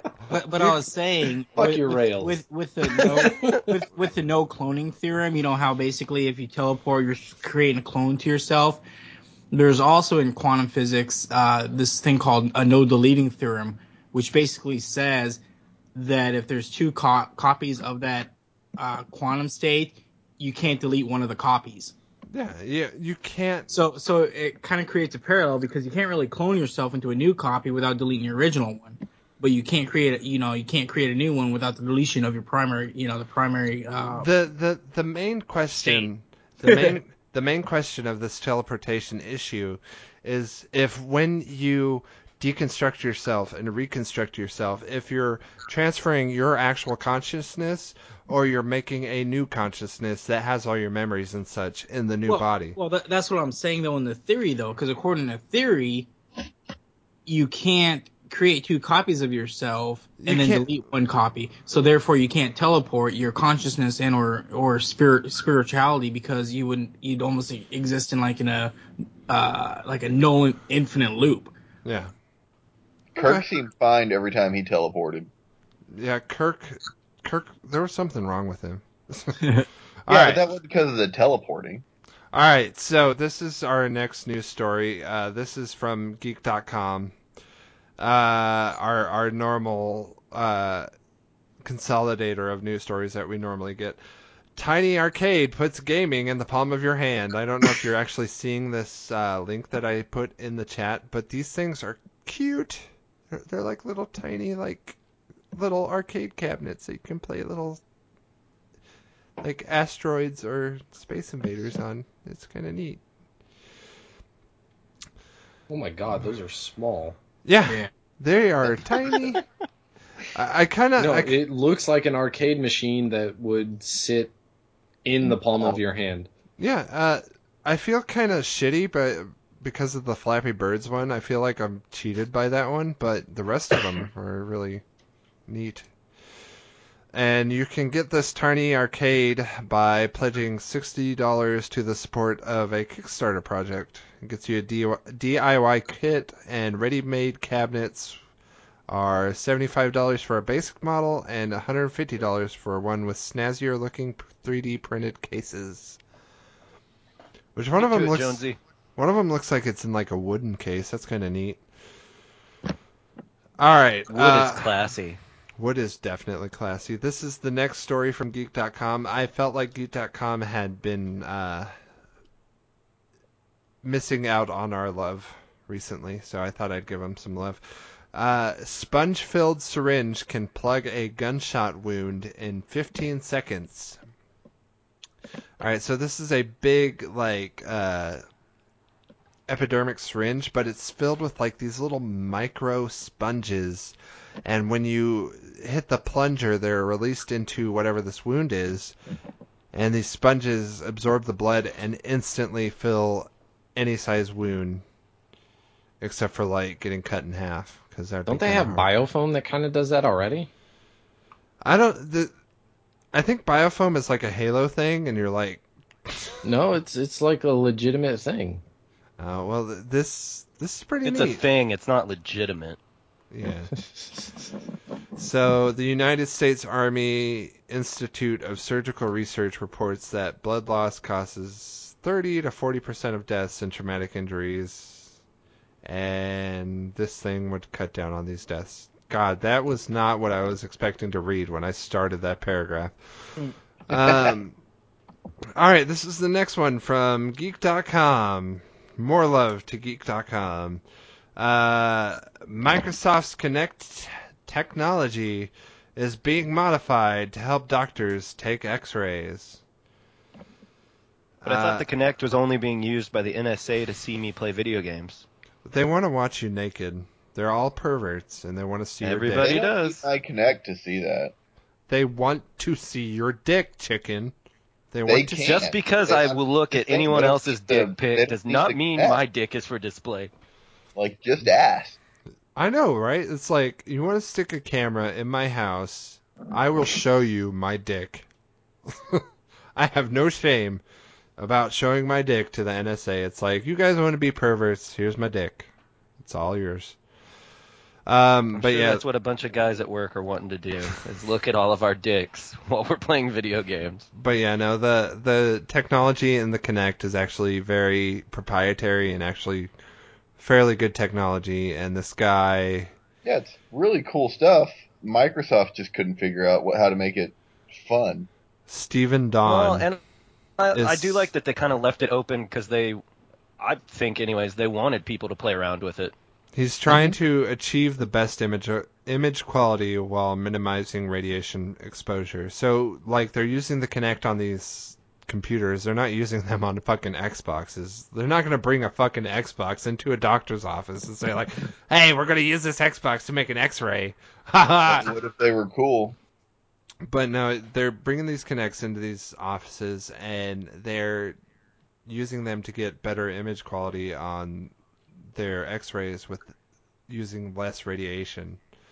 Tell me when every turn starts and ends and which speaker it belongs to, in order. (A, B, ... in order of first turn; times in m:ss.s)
0:00.3-0:08.8 A
0:01.6-0:02.4 B
0:03.2-0:03.6 B
0:09.5-0:15.4 A
0:16.0-0:21.9 A
0:22.3-0:23.7 C
0:23.7-0:34.3 A
0:34.2-0:52.8 C
0:35.7-0:36.1 A
0:36.6-0:37.0 A
0:52.3-0:56.1 A
0:57.3-1:08.7 A
1:00.2-1:00.7 C
1:09.3-1:11.5 A
1:11.8-1:12.1 C
1:13.2-1:15.3 D
1:13.2-1:13.4 C
1:15.9-1:20.4 C
1:19.4-1:19.7 A
1:20.1-1:21.8 D
1:22.3-1:27.2 C
1:28.0-1:30.9 C
1:31.6-1:34.0 C
1:34.6-1:45.0 C
1:45.5-1:47.8 C
1:49.4-1:53.0 C
1:55.7-1:57.2 B
1:57.4-1:59.4 C
2:00.3-2:01.4 C
2:01.0-2:04.3 B
2:05.0-2:06.3 B
2:06.6-2:14.8 C
2:15.5-2:15.9 C
2:17.1-2:28.2 C
2:28.9-2:36.0 C
2:37.6-2:38.4 C
2:37.8-2:38.6 E
2:39.0-2:41.6 C
2:43.6-2:44.8 C
2:44.1-2:45.2 E
2:45.6-2:51.7 C
2:53.8-3:04.0 C
3:05.6-3:08.2 C
3:09.5-3:19.0 C
3:19.7-3:24.8 C
3:26.0-3:28.9 C
3:28.3-3:30.5 B
3:31.6-3:32.3 C
3:33.1-3:36.4 C
3:36.4-3:38.6 B
3:39.2-3:41.4 C
3:41.0-3:42.8 E
3:43.3-3:43.8 C
3:43.9-3:44.3 B
3:45.2-3:55.1 C
3:55.8-4:03.0 C
4:03.9-4:04.6 C
4:05.6-4:10.8 C
4:11.4-4:19.6 C
4:21.4-4:21.9 C
4:21.5-4:25.3 E
4:25.6-4:29.6 C
4:29.0-4:30.0 E
4:29.4-4:31.3 D
4:31.9-4:34.3 C
4:34.9-4:35.6 C
4:35.1-4:39.2 D
4:35.4-4:40.3 E
4:41.0-4:42.0 D
4:42.6-4:48.3 C
4:48.9-4:49.2 C
4:49.8-4:50.8 C
4:51.4-4:57.0 C
4:58.1-4:59.0 C
4:58.6-5:04.1 E
5:04.2-5:09.7 C
5:10.4-5:12.9 C
5:13.2-5:18.3 D
5:18.7-5:19.9 C
5:19.4-5:20.0 E
5:20.6-5:23.0 E
5:20.8-5:21.3 C
5:23.6-5:26.1 E
5:26.5-5:45.1 C
5:44.9-5:46.2 D
5:47.0-5:51.4 C
5:52.1-5:54.7 C
5:55.3-5:56.6 C
5:57.1-5:58.6 C